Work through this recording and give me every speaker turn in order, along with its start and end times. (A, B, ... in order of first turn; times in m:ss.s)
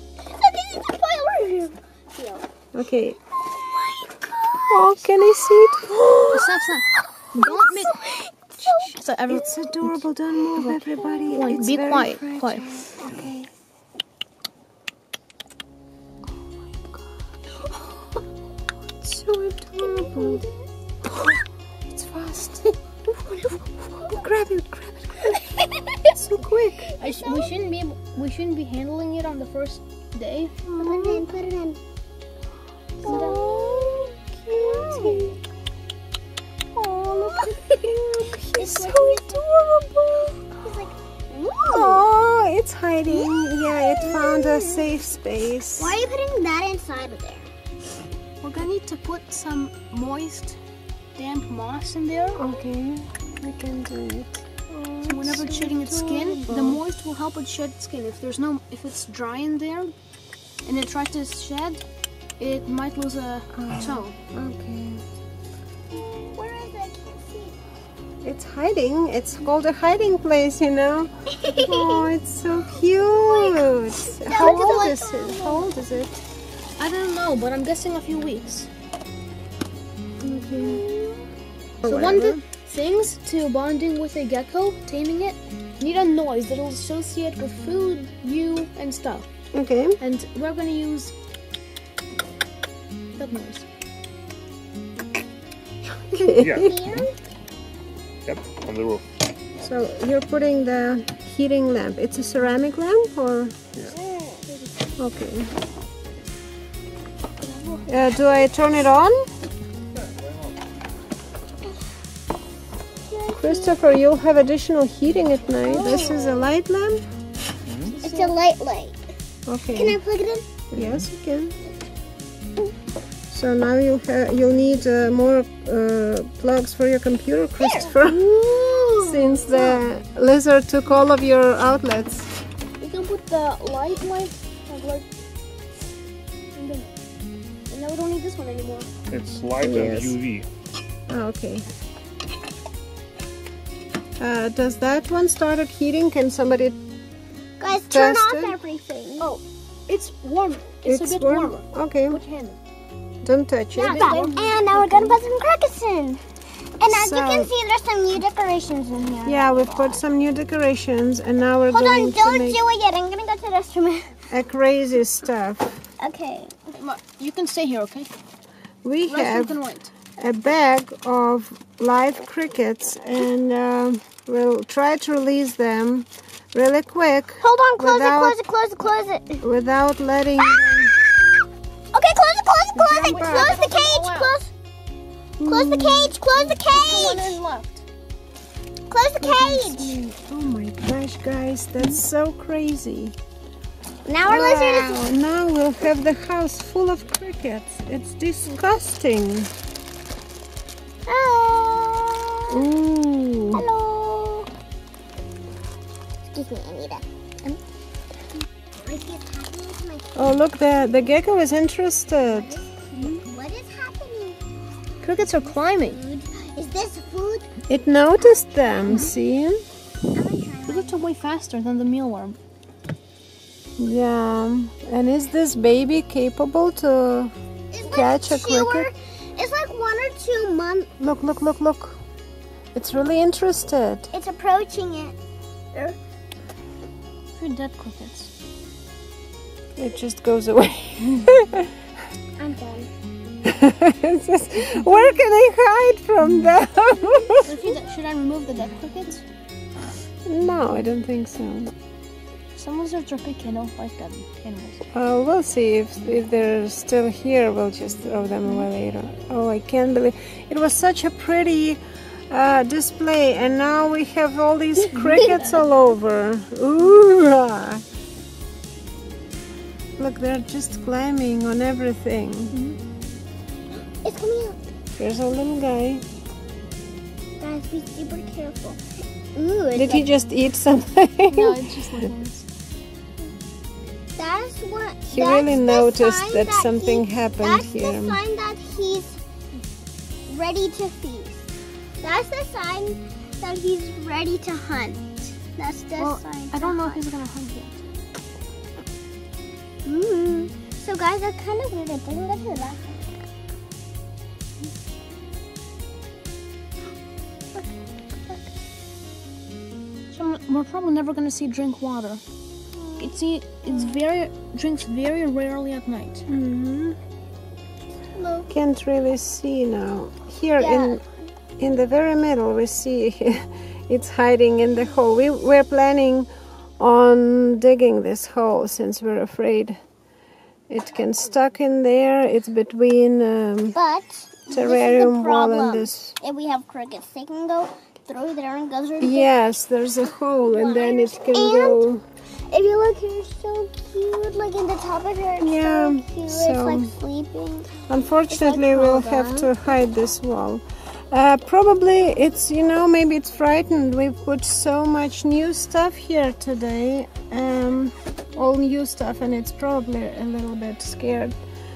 0:00.2-0:02.4 A
0:02.7-0:03.2 B
0:03.5-0:05.1 A
0:04.7-0:05.9 B
0:05.7-0:06.6 A
0:06.3-0:08.0 C
0:07.4-0:09.0 A
0:08.6-0:10.0 C
0:09.3-0:13.5 B
0:10.9-0:11.6 A
0:11.3-0:12.7 C
0:19.0-0:20.4 B
0:19.8-0:20.6 A
0:21.9-0:22.8 B
0:23.8-0:25.4 B
0:26.1-0:26.9 B
0:26.9-0:27.5 A
0:27.0-0:30.6 C
0:30.6-0:31.3 B
0:30.8-0:31.8 A
0:33.0-0:35.3 A
0:33.0-0:35.4 B
0:33.0-0:33.4 C
0:36.7-0:40.4 B
0:37.1-0:37.5 A
0:38.5-0:39.4 A
0:40.6-0:42.0 A
0:41.7-0:46.0 B
0:43.1-0:44.9 A
0:45.8-0:47.5 A
0:48.4-0:50.6 C
0:51.1-0:52.4 C
0:52.3-0:52.6 A
0:52.4-0:56.8 B
0:55.0-0:59.9 C
1:00.6-1:01.8 C
1:02.4-1:04.2 C
1:03.5-1:05.0 B
1:05.9-1:07.5 A
1:08.2-1:16.2 B
1:11.3-1:12.1 A
1:12.9-1:15.7 A
1:14.3-1:14.6 C
1:16.8-1:18.7 C
1:20.2-1:20.8 B
1:20.5-1:21.2 A
1:21.8-1:22.4 B
1:21.8-1:29.2 C
1:29.5-1:30.0 B
1:30.0-1:31.1 C
1:33.2-1:33.7 C
1:36.1-1:36.7 B
1:36.2-1:37.1 A
1:36.4-1:36.7 D
1:38.2-1:39.0 D
1:39.6-1:43.6 B
1:43.9-1:44.4 A
1:45.0-1:45.5 B
1:47.4-1:47.8 C
1:47.9-1:49.2 B
1:53.1-1:53.8 A
1:53.4-1:57.0 B
1:55.6-1:56.5 A
1:57.8-1:58.4 C
1:58.0-1:59.0 A
1:59.4-2:00.0 B
1:59.7-2:00.4 A
2:00.7-2:01.5 B
2:00.8-2:01.0 D
2:03.3-2:08.2 B
2:07.6-2:07.9 A
2:08.0-2:09.8 C
2:09.0-2:12.3 B
2:12.8-2:15.1 C
2:16.5-2:16.9 C
2:17.7-2:18.9 C
2:19.1-2:20.5 D
2:19.6-2:20.2 B
2:21.1-2:21.6 B
2:24.2-2:26.8 B
2:27.6-2:29.3 A
2:27.9-2:28.6 B
2:29.2-2:32.6 C
2:30.8-2:32.2 B
2:33.2-2:34.3 B
2:33.7-2:36.2 A
2:33.8-2:35.2 C
2:36.8-2:40.0 A
2:36.8-2:37.5 B
2:39.2-2:42.6 B
2:41.7-2:44.2 A
2:44.3-2:45.8 B
2:46.0-2:46.6 A
2:46.7-2:48.1 C
2:48.8-2:49.6 B
2:49.1-2:49.9 C
2:50.2-2:58.4 B
2:57.4-2:59.4 A
2:59.4-3:00.9 B
3:01.9-3:04.5 A
3:02.8-3:04.4 C
3:02.9-3:03.6 B
3:05.4-3:06.2 B
3:05.4-3:07.4 A
3:06.3-3:07.8 C
3:08.9-3:10.0 A
3:09.2-3:13.1 B
3:14.0-3:15.1 A
3:14.2-3:19.5 B
3:21.0-3:22.7 A
3:22.5-3:23.6 B
3:23.5-3:24.5 A
3:26.3-3:27.0 A
3:28.8-3:30.1 A
3:30.1-3:32.6 B
3:32.2-3:34.4 A
3:35.0-3:36.0 C
3:35.7-3:37.5 A
3:37.7-3:39.6 B
3:38.2-3:39.1 A
3:40.1-3:41.0 A
3:40.7-3:42.4 C
3:43.8-3:47.3 B
3:47.7-3:50.9 A
3:47.9-3:48.9 B
3:51.0-3:52.0 B
3:52.7-3:54.1 B
3:54.1-3:55.2 A
3:57.3-3:58.3 C
3:59.8-4:01.7 B
4:02.4-4:02.9 A
4:03.4-4:07.5 B
4:07.4-4:09.2 C
4:10.2-4:11.7 B
4:12.5-4:14.8 C
4:14.9-4:27.8 B
4:30.0-4:32.5 B
4:32.5-4:32.8 C
4:34.0-4:34.6 A
4:35.0-4:36.0 B
4:37.4-4:38.8 A
4:39.3-4:40.1 A
4:39.7-4:42.1 B
4:41.3-4:42.4 C
4:44.1-4:49.2 A
4:45.1-4:48.2 B
4:50.3-4:51.5 A
4:52.0-4:57.0 A
4:56.0-4:57.8 C
4:59.8-5:02.9 A
5:10.1-5:12.2 C
5:12.8-5:14.0 A
5:13.0-5:16.2 C
5:16.3-5:17.0 B
5:18.1-5:18.5 A
5:18.5-5:21.0 B
5:20.6-5:21.0 A
5:21.6-5:26.3 B
5:26.8-5:29.8 B
5:30.7-5:33.8 B
5:33.7-5:39.3 A
5:34.5-5:36.1 B
5:39.0-5:42.0 B
5:40.4-5:41.8 A
5:42.5-5:49.5 A
5:45.4-5:46.9 B
5:47.9-6:01.3 B